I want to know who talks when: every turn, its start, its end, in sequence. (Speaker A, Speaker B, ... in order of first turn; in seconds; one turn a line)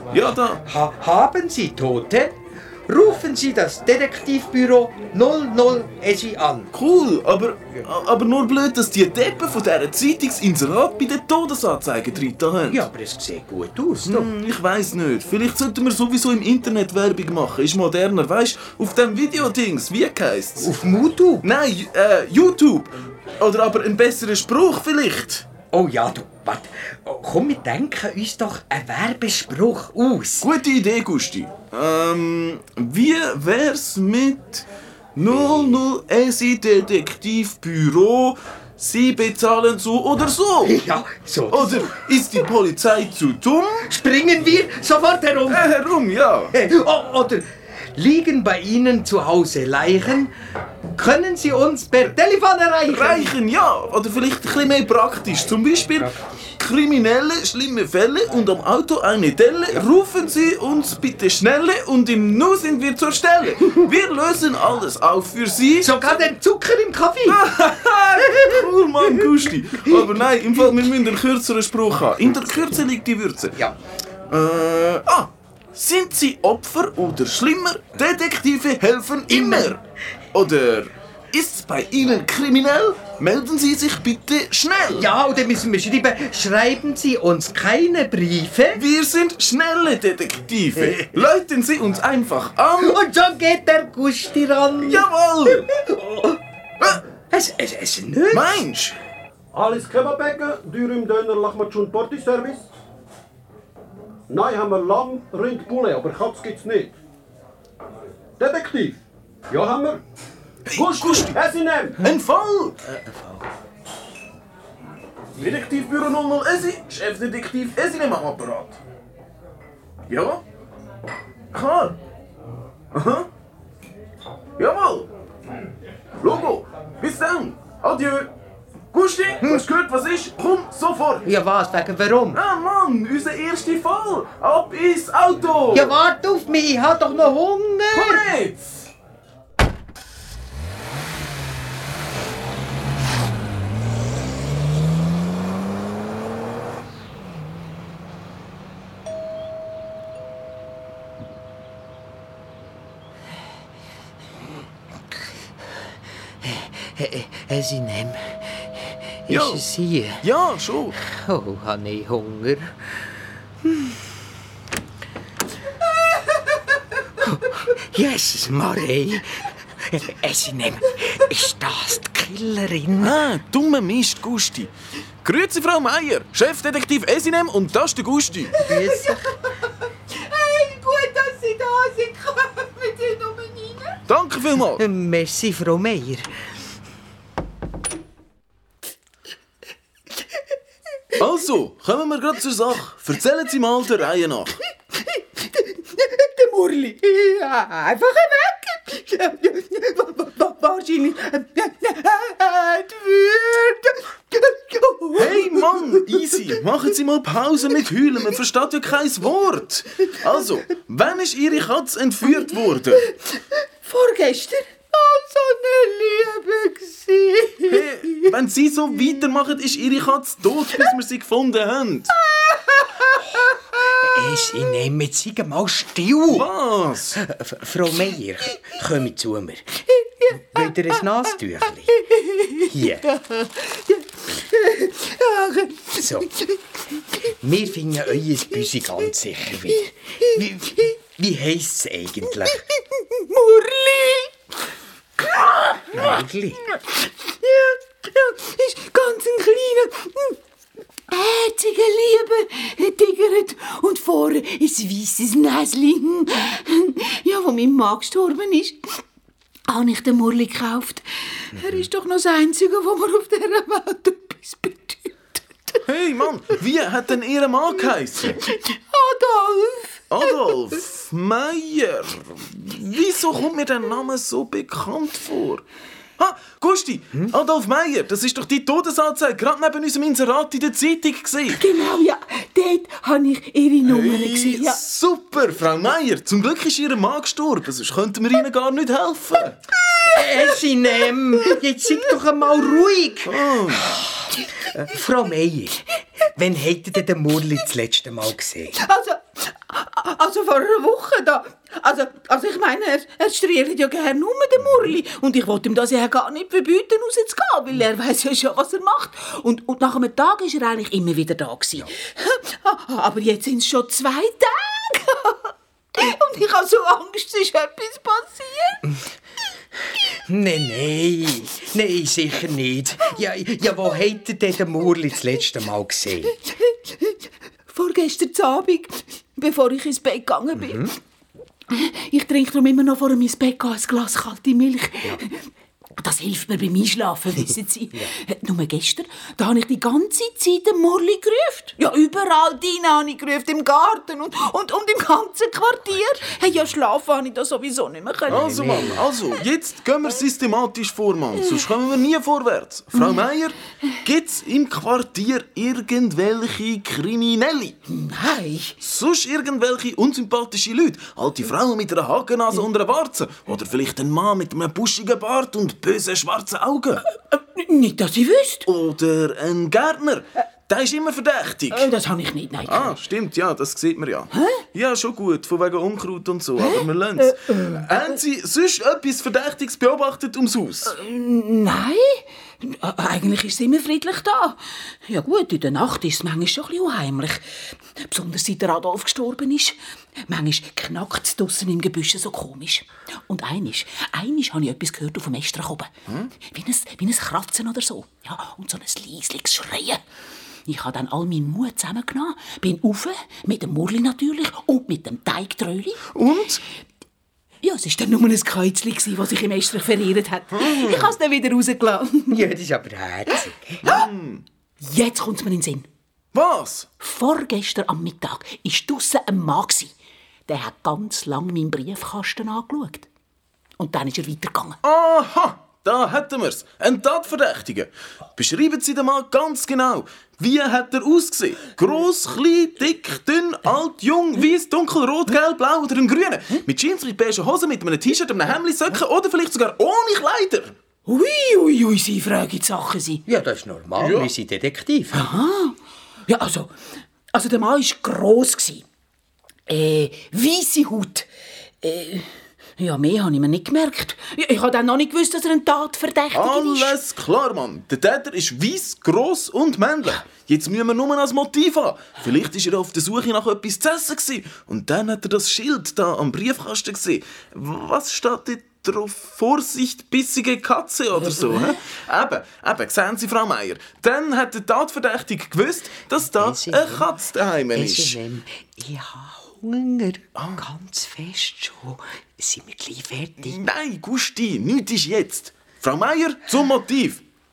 Speaker A: 0.1-0.6
Speaker B: 0.5-6.7
Speaker A: 6.7-12.8
Speaker B: 12.7-14.3
Speaker A: 14.1-20.8
Speaker B: 20.6-21.5
Speaker A: 21.4-25.5
Speaker B: 25.7-30.6
Speaker A: 30.4-40.8
Speaker B: 35.3-35.8
Speaker B: 40.6-42.1
Speaker A: 41.5-43.9
Speaker B: 43.9-45.7
Speaker A: 45.5-46.5
Speaker B: 46.5-50.3
Speaker B: 50.9-53.4
Speaker A: 52.9-66.2
Speaker B: 55.9-56.5
Speaker B: 65.8-70.2
Speaker A: 67.3-73.6
Speaker B: 72.2-72.5
Speaker B: 73.5-73.8
Speaker A: 74.3-79.8
Speaker B: 79.3-79.8
Speaker A: 80.3-85.1
Speaker B: 84.9-88.8
Speaker A: 88.7-93.0
Speaker B: 90.8-91.2
Speaker B: 92.8-98.7
Speaker A: 94.8-95.7
Speaker A: 98.3-99.0
Speaker C: 99.5-102.7
Speaker C: 104.3-106.9
Speaker C: 108.4-110.0
Speaker A: 110.7-111.4
Speaker C: 110.7-112.0
Speaker A: 112.0-112.8
Speaker B: 112.8-113.5
Speaker A: 115.4-118.8
Speaker A: 120.1-120.4
Speaker A: 121.5-122.0
Speaker A: 122.9-123.3
Speaker A: 124.6-125.1
Speaker A: 126.2-128.3
Speaker A: 128.9-131.3
Speaker B: 129.4-129.7
Speaker B: 131.2-132.4
Speaker A: 132.3-136.0
Speaker B: 135.7-138.3
Speaker A: 137.9-138.9
Speaker B: 156.4-160.2
Speaker A: 159.3-159.6
Speaker A: 160.2-161.0
Speaker B: 161.0-163.1
Speaker B: 163.6-164.1
Speaker B: 167.2-173.2
Speaker A: 173.0-174.7
Speaker A: 175.2-178.5
Speaker D: 178.6-179.5
Speaker B: 178.6-179.4
Speaker D: 180.1-184.0
Speaker A: 184.1-184.8
Speaker B: 184.8-186.3
Speaker A: 191.2-194.6
Speaker D: 195.0-206.4
Speaker A: 205.2-213.1
Speaker D: 212.3-218.3
Speaker A: 217.7-222.1
Speaker D: 222.2-224.7
Speaker B: 223.8-226.5
Speaker A: 226.3-227.2
Speaker B: 227.2-229.8
Speaker D: 229.9-231.0
Speaker B: 230.3-232.0
Speaker D: 231.9-236.6
Speaker B: 232.6-233.1
Speaker B: 235.9-236.3
Speaker B: 237.3-242.6
Speaker D: 239.7-240.9
Speaker D: 242.3-244.4
Speaker D: 245.2-246.1
Speaker B: 245.9-246.6
Speaker D: 246.7-250.4
Speaker D: 251.1-258.9
Speaker D: 259.7-265.8
Speaker A: 265.9-268.4
Speaker D: 268.4-270.6
Speaker A: 270.1-275.6
Speaker A: 276.2-281.6
Speaker D: 281.5-284.8
Speaker A: 283.9-289.6
Speaker D: 289.9-290.6
Speaker B: 290.1-294.0
Speaker A: 293.2-293.9
Speaker B: 294.7-298.8
Speaker D: 298.8-318.8
Speaker B: 320.2-326.4
Speaker D: 326.3-327.2
Speaker D: 327.7-330.9
Speaker B: 330.6-330.9
Speaker D: 331.7-335.5
Speaker D: 336.0-349.0
Speaker B: 348.3-349.1
Speaker A: 348.3-357.8
Speaker D: 357.9-358.8
Speaker A: 358.8-367.0
Speaker D: 367.3-368.7
Speaker A: 368.7-371.9
Speaker D: 371.7-373.0
Speaker A: 372.7-380.9
Speaker D: 374.3-374.6
Speaker D: 376.6-378.2
Speaker D: 380.9-387.4
Speaker D: 388.0-389.8
Speaker D: 390.3-395.9
Speaker D: 396.4-400.0
Speaker D: 400.7-406.0
Speaker A: 406.1-406.6
Speaker D: 407.6-412.4
Speaker A: 410.5-411.1
Speaker B: 412.3-413.9
Speaker A: 413.8-414.4
Speaker D: 414.8-415.9
Speaker A: 416.3-416.9
Speaker D: 417.0-419.9
Speaker D: 420.5-423.1
Speaker D: 423.8-424.8
Speaker A: 424.8-440.8
Speaker D: 441.1-443.2
Speaker B: 443.3-445.3
Speaker A: 444.0-444.3
Speaker D: 445.1-446.8
Speaker D: 447.3-448.9
Speaker D: 449.7-451.3
Speaker D: 451.8-457.0
Speaker A: 456.3-478.2
Speaker D: 471.4-471.8
Speaker B: 476.2-477.2
Speaker B: 477.7-483.6
Speaker A: 480.4-480.6
Speaker A: 483.4-487.2